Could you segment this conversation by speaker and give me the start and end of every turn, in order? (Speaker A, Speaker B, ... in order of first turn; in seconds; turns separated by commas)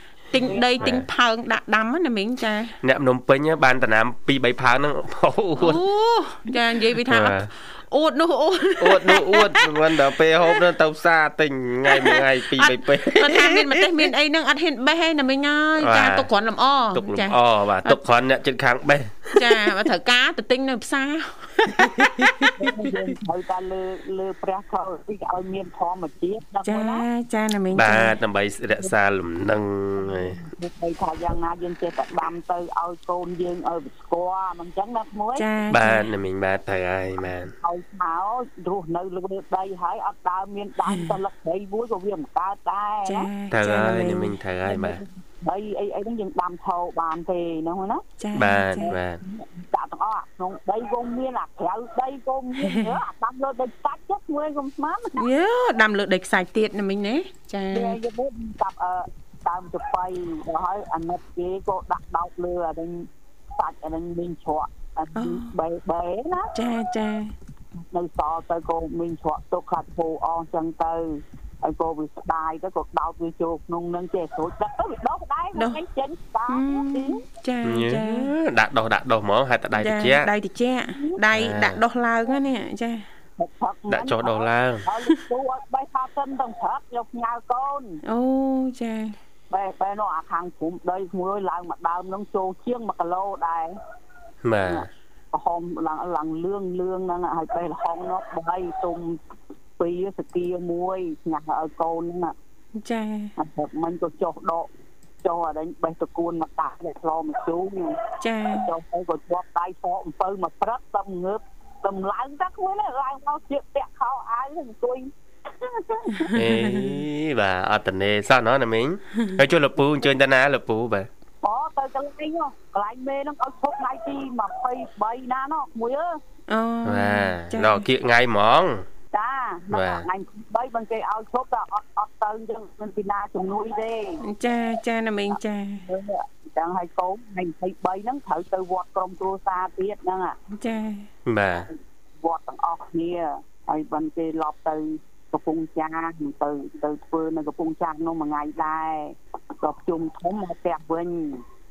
Speaker A: 0.3-2.8, Speaker B: 0.4-0.9, Speaker C: 0.8-1.1, Speaker C: 2.8-5.8, Speaker A: 5.6-9.8, Speaker C: 7.1-7.5, Speaker C: 8.8-14.1, Speaker A: 11.9-18.0, Speaker C: 15.8-16.3, Speaker C: 16.9-19.8, Speaker A: 19.4-23.0, Speaker C: 21.8-22.3, Speaker B: 22.6-27.1, Speaker A: 26.6-28.2, Speaker C: 27.7-30.4, Speaker B: 30.0-35.5, Speaker A: 35.4-36.1, Speaker C: 35.7-37.5, Speaker B: 37.6-43.3, Speaker A: 40.9-41.2, Speaker A: 43.0-44.4, Speaker C: 43.5-45.0, Speaker B: 44.6-48.0, Speaker A: 48.2-49.0, Speaker C: 48.4-49.2, Speaker B: 48.8-55.3, Speaker A: 52.6-53.0, Speaker A: 55.2-58.0, Speaker B: 57.7-66.5, Speaker A: 65.2-65.5, Speaker A: 66.5-67.3, Speaker B: 67.9-77.2, Speaker A: 75.5-75.8, Speaker A: 76.5-78.3, Speaker C: 77.6-80.3, Speaker A: 79.7-83.1, Speaker B: 80.9-81.2, Speaker C: 81.3-81.8, Speaker B: 83.4-88.0, Speaker C: 83.9-84.9, Speaker A: 88.0-89.2, Speaker B: 89.5-93.8, Speaker C: 94.4-94.9, Speaker B: 94.6-99.2, Speaker B: 99.8-102.3, Speaker A: 102.8-103.3, Speaker B: 103.4-104.7, Speaker B: 105.2-108.0, Speaker A: 108.2-108.7, Speaker B: 108.5-116.3, Speaker A: 116.2-117.0, Speaker C: 116.3-121.1, Speaker B: 121.4-126.2, Speaker A: 126.5-127.8, Speaker C: 126.8-128.9, Speaker B: 129.1-134.2, Speaker C: 129.7-130.1, Speaker A: 134.2-135.8, Speaker B: 135.8-140.4, Speaker A: 140.5-141.1, Speaker C: 141.2-141.7, Speaker B: 141.6-151.4